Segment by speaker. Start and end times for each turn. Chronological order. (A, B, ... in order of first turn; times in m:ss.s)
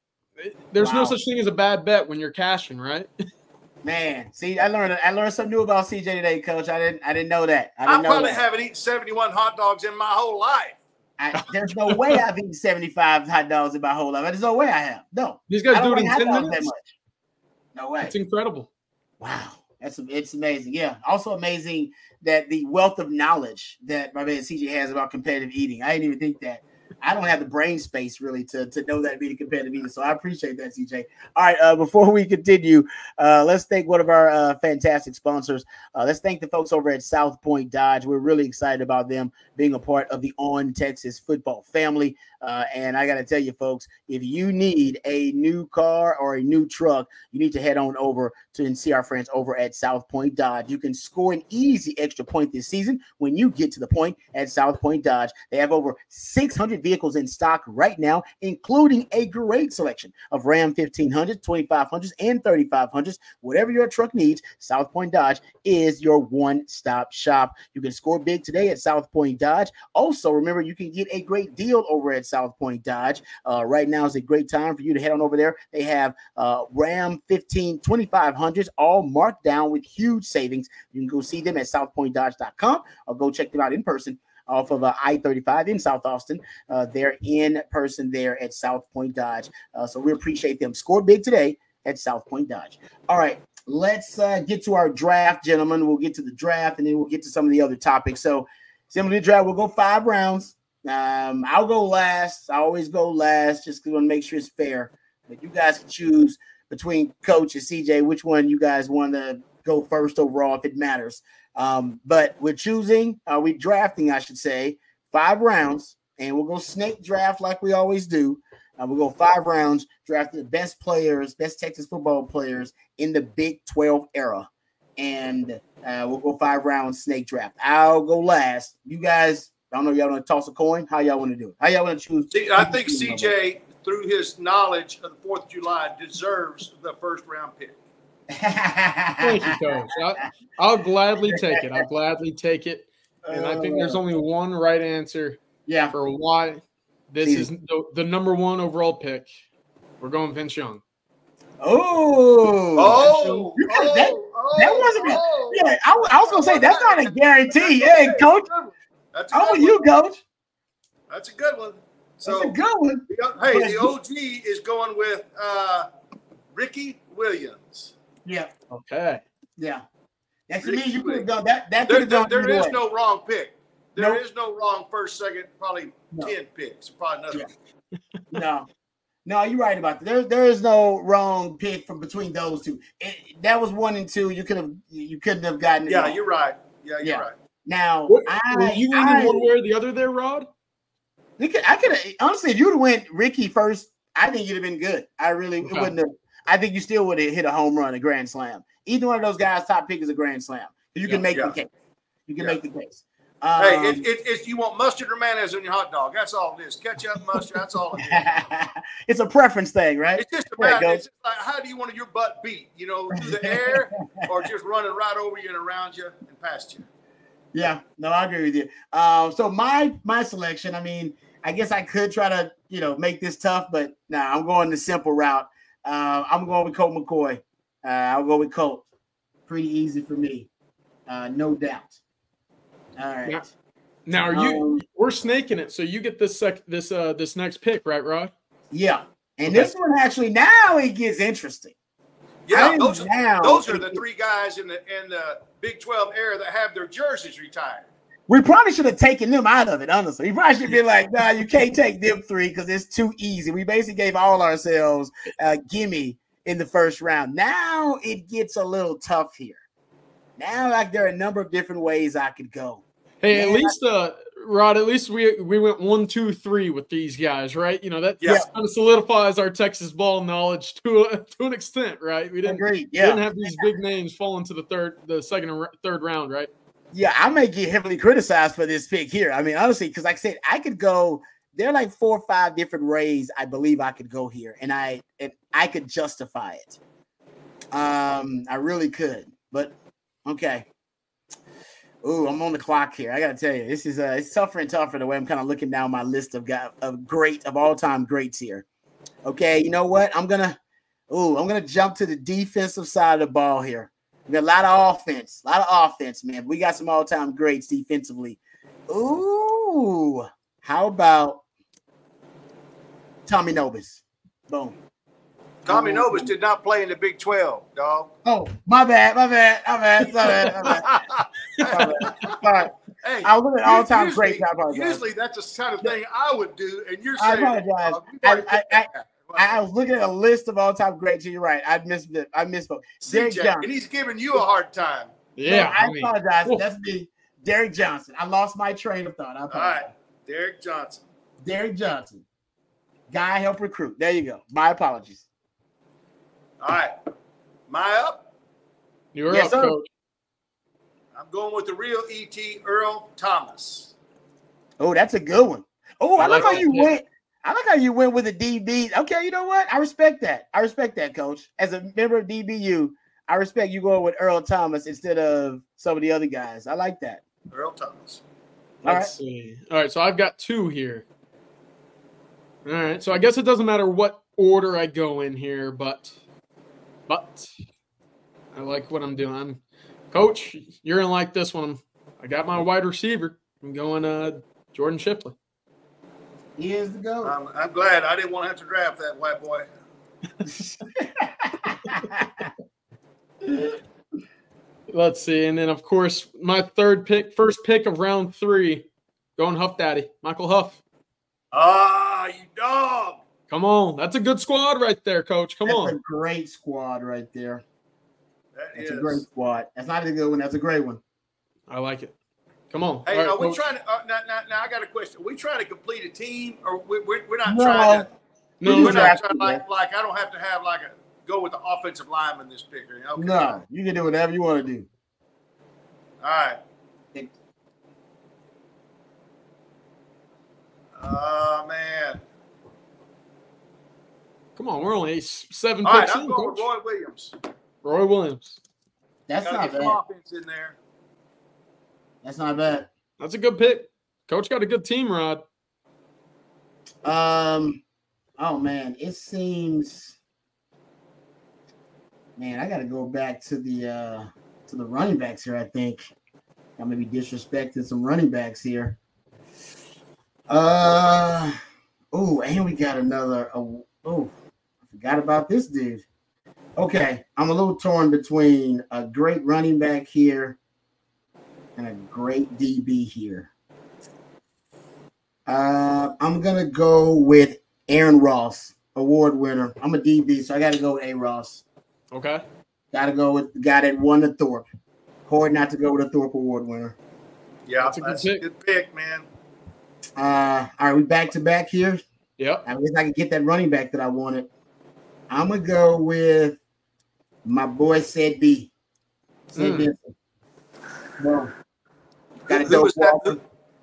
0:00.4-0:03.1 A
0:00.8-0:01.2 B
0:03.8-0:08.4 B
0:07.9-0:10.8 C
0:11.2-0:17.0 B
0:11.9-0:12.2 A
0:15.5-0:16.7 A
0:17.7-0:18.1 B
0:18.0-0:18.7 A
0:19.2-2:13.3 B
2:12.3-2:17.8 C
2:18.3-2:19.6 B
2:19.2-2:25.4 A
2:21.2-2:21.8 B
2:23.2-2:24.0 B
2:25.6-2:25.9 B
2:25.9-2:29.3 A
2:27.2-2:27.5 B
2:30.0-2:30.8 A
2:31.6-2:38.5 B
2:32.8-2:40.0 C
2:39.3-2:40.2 B
2:41.1-2:42.5 C
2:42.2-2:43.9 B
2:43.1-2:45.9 C
2:46.5-2:47.9 C
2:48.2-2:48.5 B
2:48.7-2:49.2 A
2:49.6-2:49.8 B
2:50.5-2:52.8 B
2:50.6-2:51.2 C
2:51.9-2:57.4 C
2:58.3-2:58.7 B
2:59.2-3:06.1 B
3:05.9-3:07.3 C
3:07.0-3:09.5 B
3:08.1-3:10.5 A
3:11.4-3:21.7 B
3:15.6-3:15.9 A
3:22.3-3:24.0 B
3:23.6-3:28.2 C
3:28.0-3:31.0 B
3:30.2-3:36.8 C
3:33.2-3:34.2 B
3:37.5-3:48.8 B
3:49.5-3:50.5 B
3:51.1-3:52.0 B
3:53.0-3:53.4 B
3:54.0-3:58.3 A
3:54.3-3:54.8 B
3:58.7-4:01.7 B
4:02.5-4:07.9 C
4:02.5-4:04.0 B
4:08.3-4:19.6 B
4:20.4-4:23.7 B
4:23.2-4:36.5 A
4:32.4-4:33.6 B
4:36.9-4:46.8 B
4:47.7-4:49.7 B
4:50.2-4:50.6 B
4:52.0-4:58.6 B
4:59.2-5:00.6 B
5:01.1-5:11.4 B
5:13.2-5:14.7 B
5:15.6-5:18.1 C
5:15.6-5:16.3 B
5:18.2-5:20.9 B
5:20.6-5:22.4 C
5:21.6-5:21.8 A
5:21.7-5:25.0 B
5:23.0-5:29.6 C
5:27.2-5:33.7 B
5:33.0-5:35.1 C
5:35.3-5:36.6 A
5:35.4-5:39.9 B
5:39.5-5:41.0 C
5:41.4-5:42.2 B
5:43.1-5:45.2 B
5:46.6-5:46.9 C
5:47.7-5:48.3 C
5:49.1-5:49.8 A
5:49.3-5:49.8 B
5:51.1-5:53.9 C
5:54.8-6:07.2 B
5:56.2-5:56.9 A
5:56.3-5:56.6 C
6:07.5-6:08.2 C
6:08.8-6:09.1 B
6:08.8-6:11.0 A
6:12.6-6:16.1 A
6:17.1-6:17.5 A
6:18.5-6:19.6 A
6:20.1-6:25.3 A
6:26.6-6:27.3 B
6:27.2-6:29.6 C
6:30.4-6:32.5 B
6:33.4-6:33.7 B
6:34.9-6:40.8 A
6:41.5-6:43.2 C
6:43.5-6:46.0 A
6:45.6-6:47.6 B
6:48.5-6:49.2 C
6:48.7-6:51.0 B
6:51.7-6:52.1 A
6:52.7-6:53.6 A
6:53.0-6:58.0 C
6:57.4-6:58.0 B
6:58.6-6:59.1 A
6:58.6-6:59.6 B
6:58.7-7:03.6 C
7:03.2-7:04.9 B
7:06.2-7:06.6 C
7:11.0-7:12.2 C
7:14.6-7:16.7 A
7:15.8-7:17.3 C
7:17.8-7:18.6 A
7:19.3-7:20.0 B
7:19.4-7:20.8 C
7:22.2-7:22.9 B
7:23.2-7:25.4 A
7:27.0-7:27.8 B
7:28.4-7:30.2 B
7:32.4-7:36.1 B
7:36.8-7:39.0 B
7:40.5-7:41.5 B
7:42.1-7:44.3 B
7:44.9-7:46.0 B
7:46.8-7:50.6 B
7:51.8-7:53.5 B
7:55.5-8:01.6 B
8:02.1-8:02.4 A
8:02.9-8:04.6 B
8:05.3-8:07.0 B
8:07.6-8:09.2 C
8:07.8-8:08.4 A
8:10.2-8:12.0 B
8:12.4-8:12.6 A
8:12.6-8:14.5 B
8:15.3-8:16.6 B
8:17.4-8:18.7 B
8:19.5-8:20.1 B
8:19.5-8:19.9 A
8:21.2-8:21.5 B
8:22.5-8:23.4 C
8:22.5-8:23.4 B